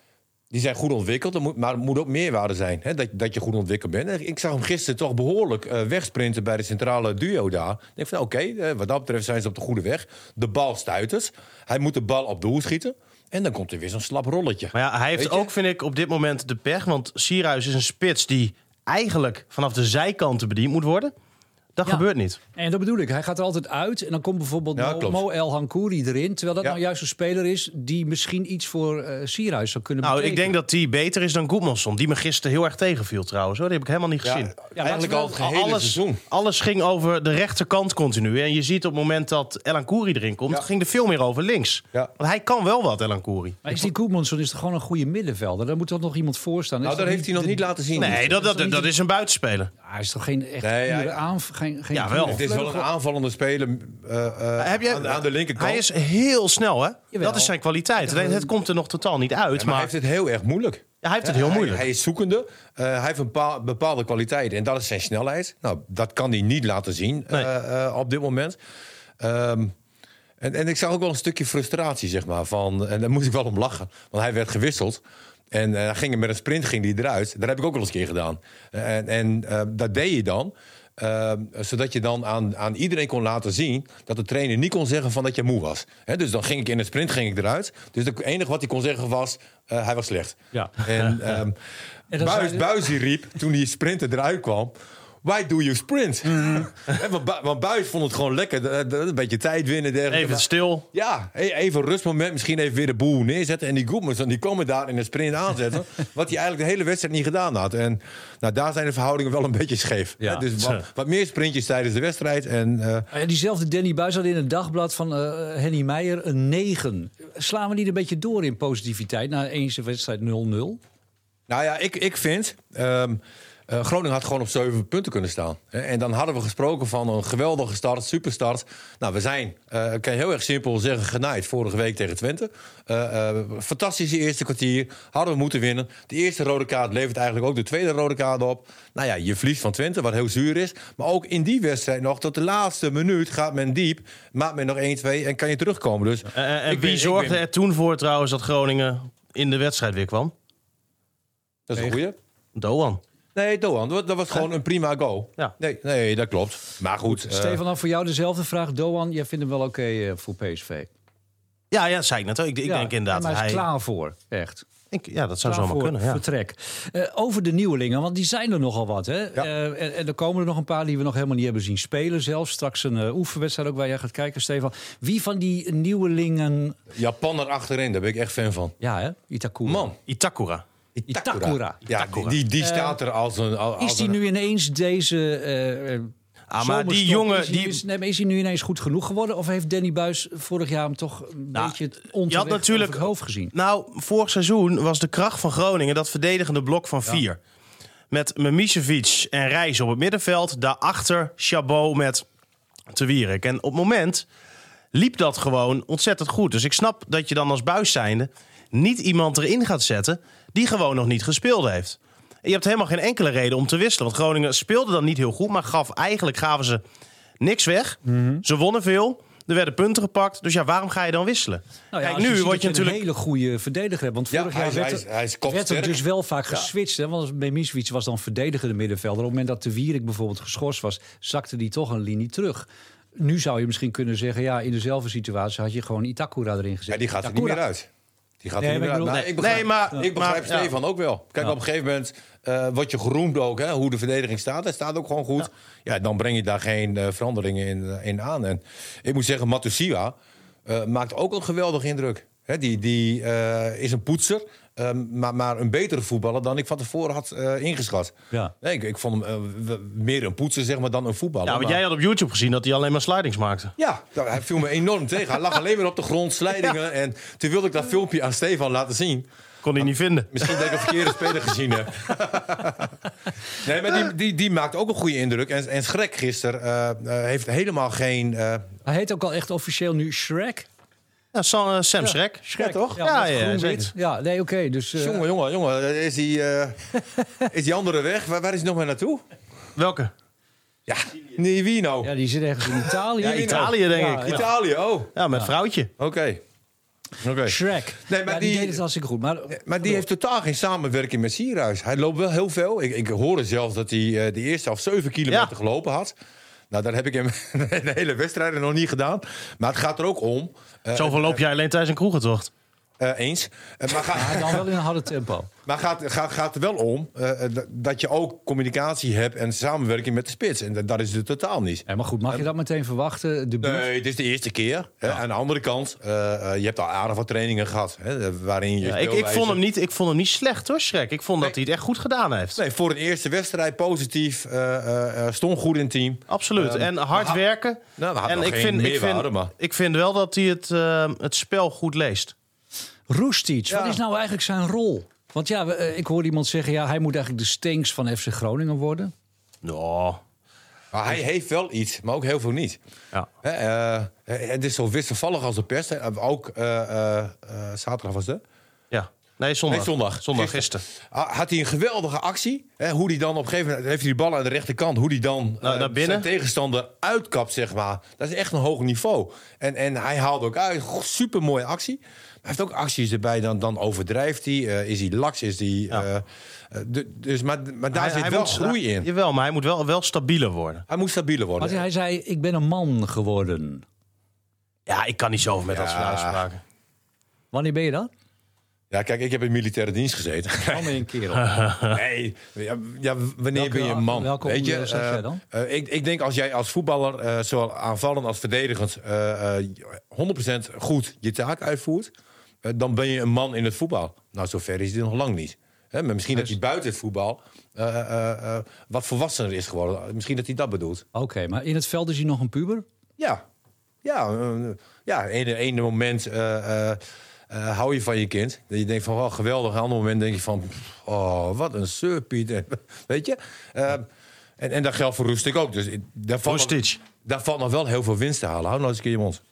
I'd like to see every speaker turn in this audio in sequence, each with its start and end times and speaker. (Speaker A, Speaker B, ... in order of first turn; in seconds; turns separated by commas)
Speaker A: 0.5-15.5, Speaker B: 14.7-21.1, Speaker B: 21.8-22.4, Speaker C: 21.9-30.5, Speaker A: 24.8-25.2, Speaker B: 30.0-43.8, Speaker A: 34.2-36.2, Speaker C: 34.8-35.1, Speaker C: 43.6-48.9, Speaker A: 46.8-48.4, Speaker B: 48.0-49.7, Speaker C: 49.8-52.9, Speaker A: 50.6-51.2, Speaker B: 51.9-52.4, Speaker A: 52.2-55.9, Speaker B: 54.6-59.9, Speaker C: 57.1-58.5, Speaker A: 59.5-68.6, Speaker B: 61.0-61.9, Speaker A: 69.2-69.7, Speaker A: 70.4-91.6, Speaker C: 90.5-90.8, Speaker C: 92.1-92.8, Speaker A: 92.1-113.1, Speaker C: 96.3-96.6, Speaker B: 100.1-100.8, Speaker C: 110.2-110.5, Speaker C: 113.1-120.8, Speaker A: 121.5-147.4, Speaker B: 146.3-150.3, Speaker A: 151.7-152.2, Speaker B: 152.5-153.0, Speaker A: 153.3-157.6, Speaker C: 157.0-160.9, Speaker B: 161.7-163.7, Speaker C: 162.7-164.7, Speaker B: 164.9-166.2, Speaker C: 165.4-176.8, Speaker A: 176.9-178.8, Speaker C: 178.8-179.9, Speaker A: 179.7-180.0, Speaker B: 180.1-180.6, Speaker A: 181.0-184.2, Speaker C: 181.1-181.8, Speaker B: 181.9-182.4, Speaker C: 182.6-183.0, Speaker C: 183.8-193.5, Speaker B: 186.5-187.8, Speaker B: 192.3-197.4, Speaker B: 198.1-202.2, Speaker B: 202.9-204.2, Speaker B: 204.9-216.8, Speaker B: 217.4-223.0, Speaker C: 218.1-218.4, Speaker C: 221.9-237.6, Speaker A: 224.3-226.0, Speaker A: 236.9-237.9, Speaker A: 238.4-261.8, Speaker C: 238.6-239.4, Speaker B: 239.1-240.7, Speaker B: 261.4-263.7, Speaker A: 263.8-272.9, Speaker B: 269.6-270.6, Speaker A: 273.6-278.7, Speaker C: 278.9-280.7, Speaker B: 281.3-283.9, Speaker C: 282.0-285.2, Speaker A: 282.6-282.9, Speaker A: 285.0-286.8, Speaker A: 287.4-289.2, Speaker B: 289.8-290.1, Speaker A: 290.9-292.1, Speaker C: 292.0-294.4, Speaker A: 292.6-295.1, Speaker B: 293.2-294.5, Speaker B: 295.2-295.9, Speaker A: 296.0-296.4, Speaker A: 297.2-298.8, Speaker C: 297.4-300.0, Speaker A: 299.5-306.2, Speaker A: 306.7-311.4, Speaker B: 310.9-312.5, Speaker A: 313.0-314.7, Speaker C: 314.1-315.5, Speaker A: 315.7-322.5, Speaker C: 321.9-323.9, Speaker A: 323.6-329.6, Speaker B: 328.8-332.6, Speaker A: 332.6-337.4, Speaker B: 336.3-342.3, Speaker A: 338.0-339.5, Speaker C: 343.1-349.1, Speaker A: 343.7-344.0, Speaker B: 349.6-350.2, Speaker A: 350.9-352.8, Speaker A: 353.4-358.4, Speaker B: 358.9-360.8, Speaker A: 359.7-379.1, Speaker B: 365.6-366.3, Speaker B: 377.9-380.9, Speaker A: 380.9-381.8, Speaker C: 381.6-383.9, Speaker B: 384.9-386.6, Speaker A: 385.7-386.4, Speaker C: 387.5-388.1, Speaker A: 388.9-391.0, Speaker C: 390.7-391.5, Speaker B: 391.4-391.9, Speaker A: 391.8-402.1, Speaker C: 393.5-395.4, Speaker A: 402.6-411.0, Speaker C: 411.1-412.9, Speaker A: 413.2-413.4, Speaker A: 414.0-424.1, Speaker A: 424.6-429.4, Speaker B: 426.4-427.0